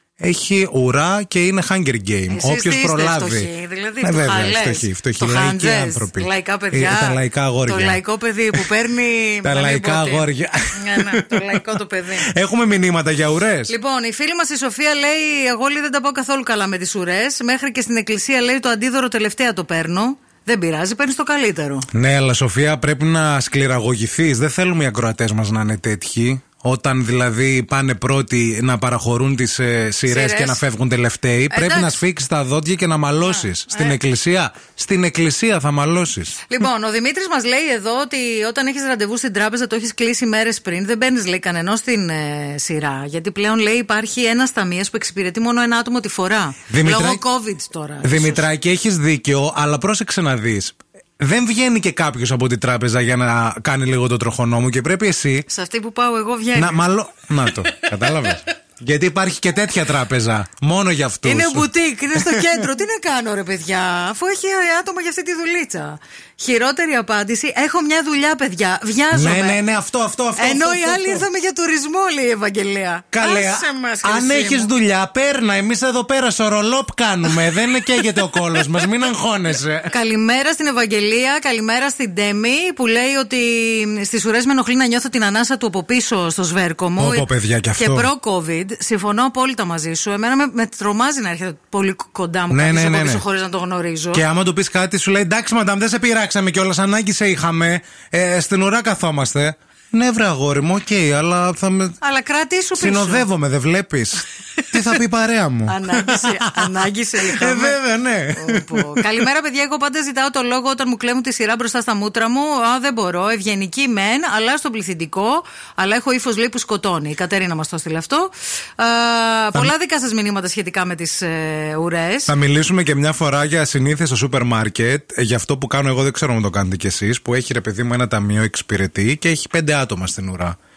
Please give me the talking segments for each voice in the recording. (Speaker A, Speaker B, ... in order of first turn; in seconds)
Speaker A: 0.2-3.5, 4.0-8.0, 9.4-11.6, 12.3-13.7, 21.9-36.4, 46.7-47.2, 48.0-55.5, 56.5-62.6, 69.1-71.3, 73.1-79.9, 87.0-88.1, 92.5-93.2, 94.1-102.0, 102.8-109.2, 122.3-130.6
Speaker B: 2.3-12.3, 13.7-21.9, 30.1-30.6, 31.5-32.0, 33.2-34.0, 36.5-48.5, 55.5-56.8, 57.7-58.3, 61.2-69.6, 70.4-74.7, 79.9-94.2, 102.0-103.3, 104.6-105.0, 105.7-107.8, 108.3-122.3